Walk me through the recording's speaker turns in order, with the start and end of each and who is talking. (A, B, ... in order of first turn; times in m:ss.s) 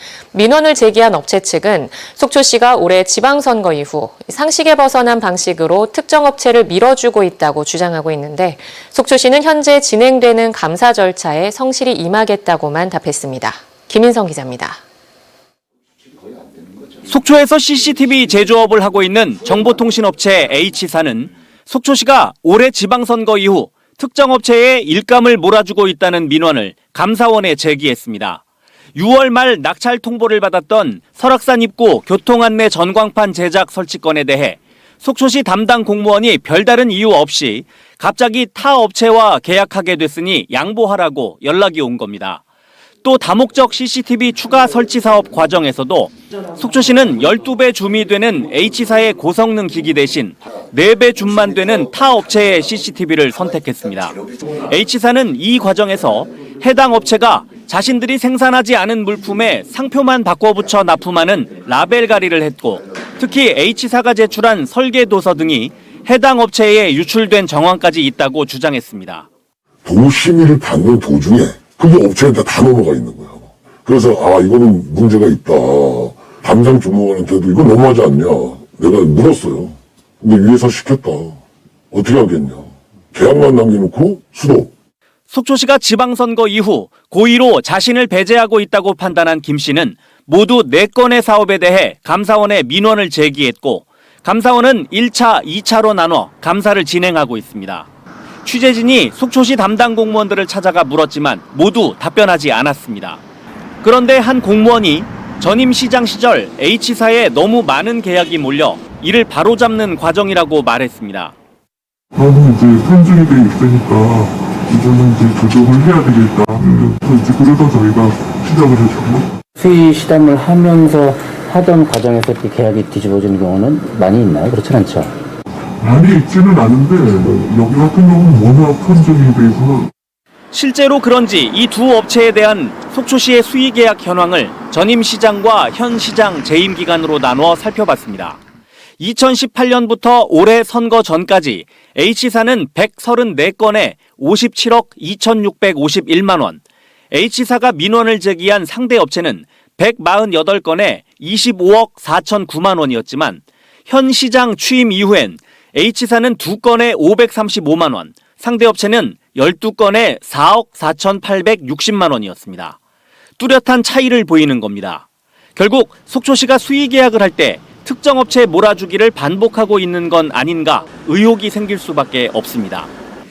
0:00.3-0:14.8 A
0:17.0-0:28.4 B
0:29.0-0:42.4 B
0:43.0-1:09.3 B
1:09.8-1:24.7 C
1:25.3-1:37.9 B
1:38.4-1:43.2 B
1:43.8-1:51.3 B
1:52.1-1:59.3 D
1:59.6-2:05.1 E
2:05.8-2:09.9 D
2:10.5-2:18.4 B
2:19.0-2:42.8 B
2:43.4-2:52.9 B